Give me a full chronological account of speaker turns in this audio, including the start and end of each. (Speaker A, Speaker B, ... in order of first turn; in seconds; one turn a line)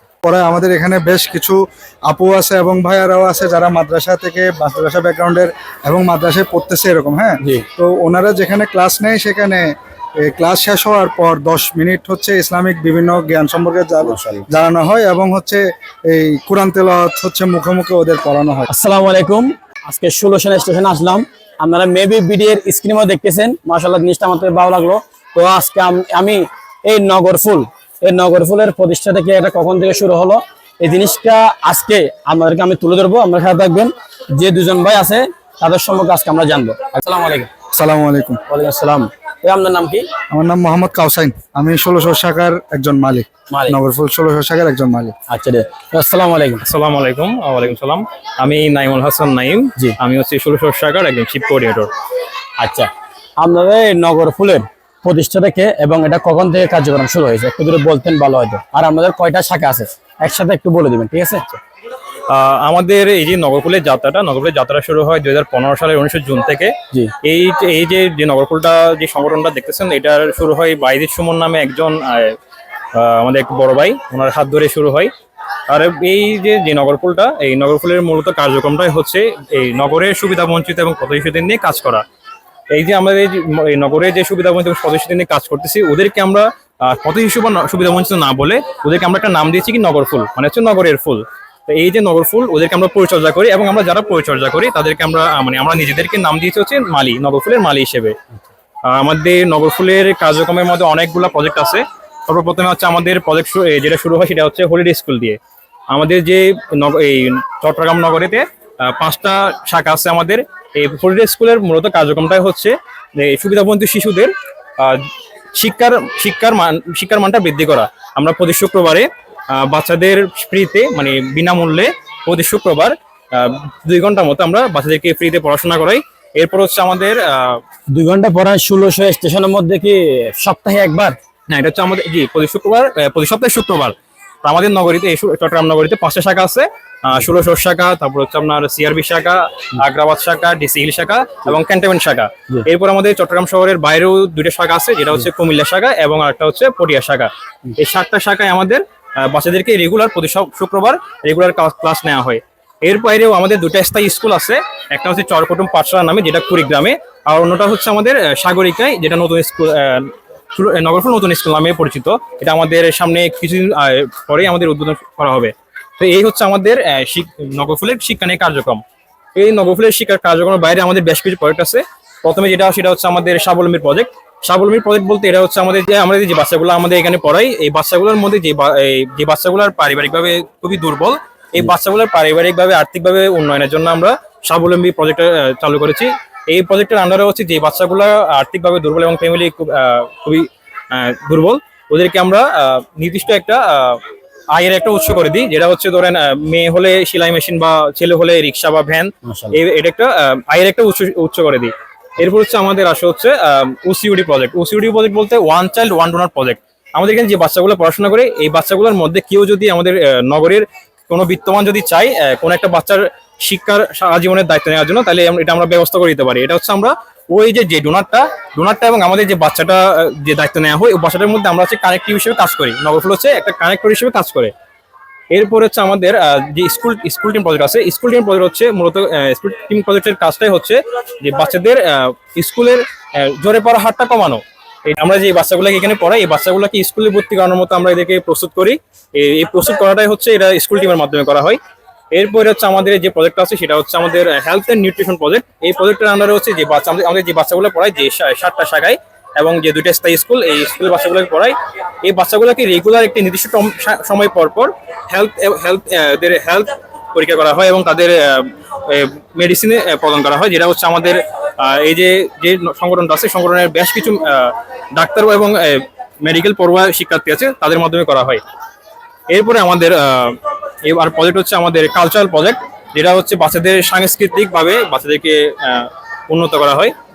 Speaker A: 0.2-9.7
Speaker A: 10.2-18.7
Speaker B: 14.0-14.4
Speaker B: 18.7-37.5
Speaker A: 37.7-38.4
Speaker B: 38.5-40.1
Speaker A: 40.3-45.1
Speaker B: 43.5-43.8
Speaker B: 45.3-46.6
Speaker C: 46.6-51.9
Speaker B: 52.6-61.5
Speaker C: 62.3-72.3
Speaker C: 72.9-75.1
Speaker C: 75.7-82.0
Speaker C: 82.7-98.2
Speaker C: 98.8-105.4
Speaker C: 105.9-127.6
Speaker B: 127.9-131.2
Speaker C: 131.5-168.8
Speaker C: 169.3-224.5
Speaker B: 199.2-199.6
Speaker C: 225.3-241.6
Speaker C: 242.1-268.4
Speaker C: 269.3-276.9